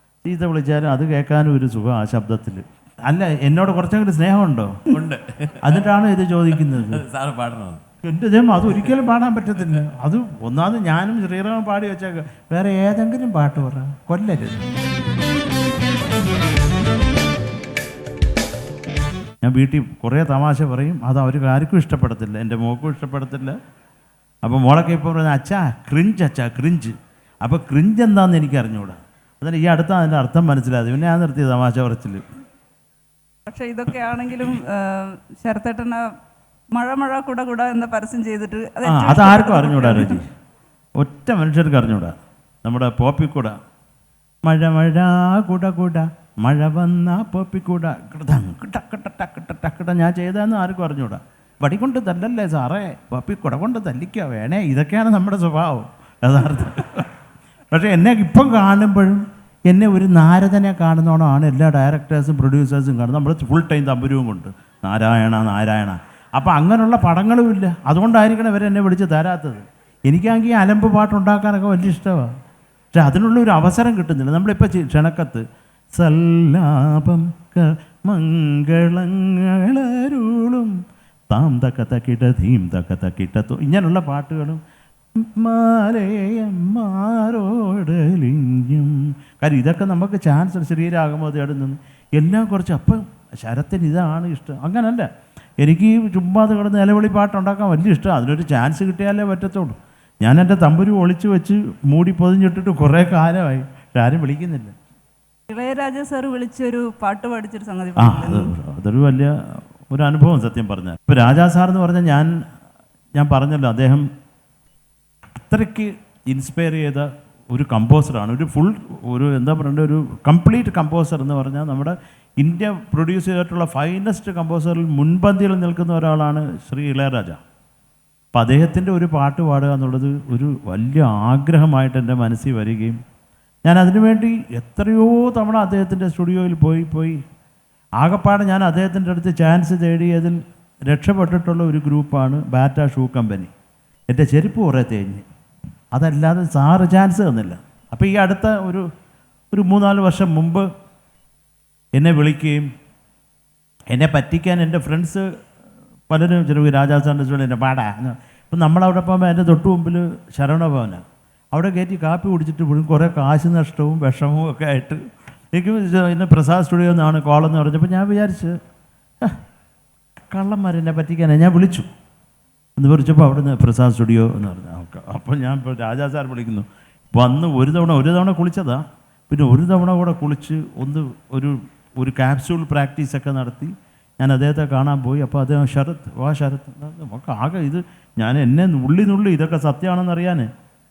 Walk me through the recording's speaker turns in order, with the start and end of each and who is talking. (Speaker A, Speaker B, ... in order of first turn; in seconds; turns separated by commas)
Speaker A: 0.2-4.7, Speaker B: 4.9-5.8, Speaker A: 5.6-7.0, Speaker B: 6.6-7.8, Speaker A: 8.0-14.6, Speaker A: 19.4-23.6, Speaker A: 24.4-32.2, Speaker C: 33.5-36.0, Speaker C: 36.7-40.2, Speaker A: 38.8-40.3, Speaker A: 41.0-43.6, Speaker A: 44.4-57.1, Speaker A: 57.7-72.3, Speaker A: 72.9-75.4, Speaker A: 76.0-80.7, Speaker A: 81.3-84.6, Speaker A: 85.2-104.7, Speaker C: 105.5-108.5, Speaker A: 108.0-109.3, Speaker A: 109.9-112.3, Speaker A: 113.2-114.1, Speaker A: 115.4-127.4, Speaker A: 128.4-133.0, Speaker A: 133.7-137.2, Speaker A: 138.0-140.4, Speaker A: 140.9-143.5, Speaker A: 144.1-145.3, Speaker A: 145.9-148.8, Speaker A: 149.5-150.7, Speaker A: 152.0-152.7, Speaker A: 153.9-155.3, Speaker A: 156.1-161.0, Speaker A: 161.5-165.0, Speaker A: 165.5-168.6, Speaker A: 170.3-171.9, Speaker A: 172.8-190.5